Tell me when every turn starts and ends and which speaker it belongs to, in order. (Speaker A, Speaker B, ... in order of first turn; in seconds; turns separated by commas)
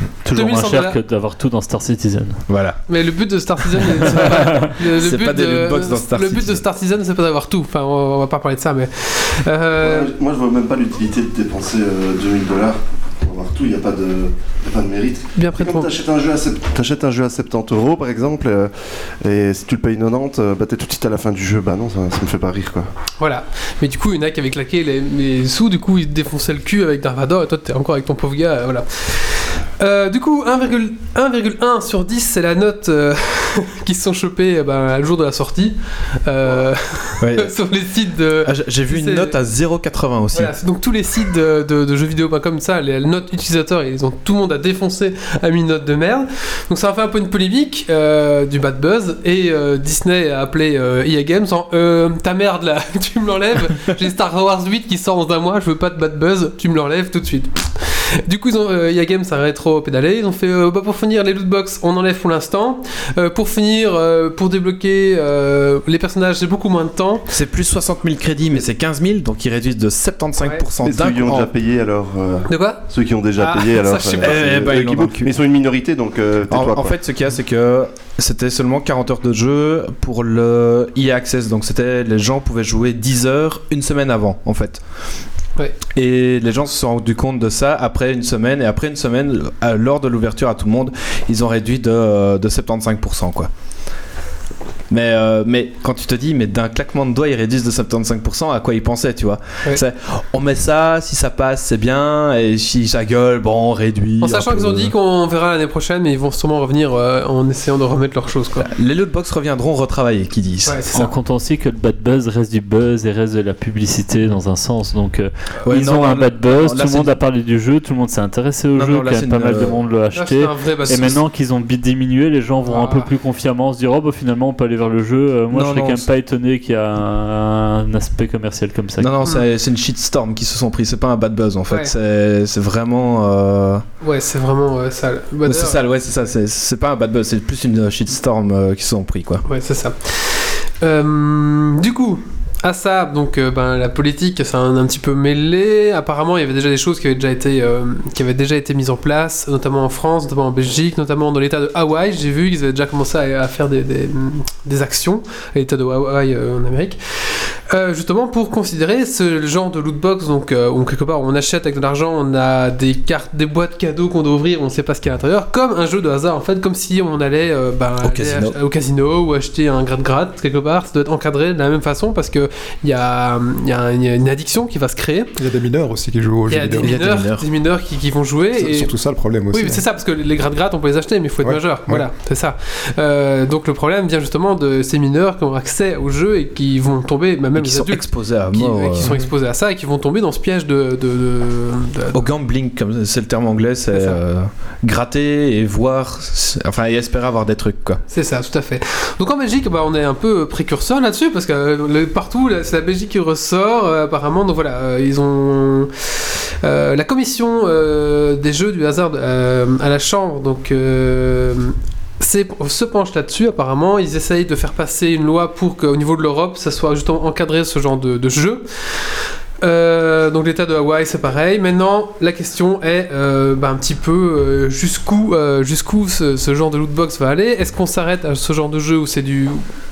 Speaker A: 0.2-2.4, Speaker B: 0.3-1.0, Speaker C: 2.5-2.8, Speaker B: 2.9-10.1, Speaker C: 4.8-6.6, Speaker D: 9.8-22.9, Speaker B: 15.4-15.9, Speaker B: 23.2-39.4, Speaker C: 37.2-37.5, Speaker C: 38.5-40.5, Speaker B: 40.3-67.3, Speaker C: 67.3-71.5, Speaker D: 70.8-77.0, Speaker B: 72.5-72.8, Speaker B: 73.4-74.5, Speaker C: 74.2-75.3, Speaker C: 76.5-84.8, Speaker C: 86.0-93.5, Speaker C: 94.9-104.9, Speaker B: 104.2-108.7, Speaker C: 108.6-110.9, Speaker B: 110.7-111.1, Speaker A: 111.0-129.1, Speaker C: 115.7-117.1, Speaker C: 118.8-119.8, Speaker B: 120.1-121.2, Speaker B: 122.7-123.1, Speaker C: 125.5-126.1, Speaker C: 129.0-133.8, Speaker B: 134.0-135.8, Speaker C: 135.5-139.4, Speaker B: 139.4-157.0, Speaker B: 157.7-175.3, Speaker C: 168.0-168.6, Speaker E: 175.4-177.0, Speaker B: 176.5-178.9, Speaker C: 176.8-177.5, Speaker E: 178.6-179.8, Speaker B: 179.5-192.3, Speaker E: 181.4-182.1, Speaker C: 187.6-189.1, Speaker C: 192.1-198.0, Speaker B: 193.9-194.2, Speaker B: 198.1-205.9, Speaker B: 206.6-218.6, Speaker B: 219.6-229.6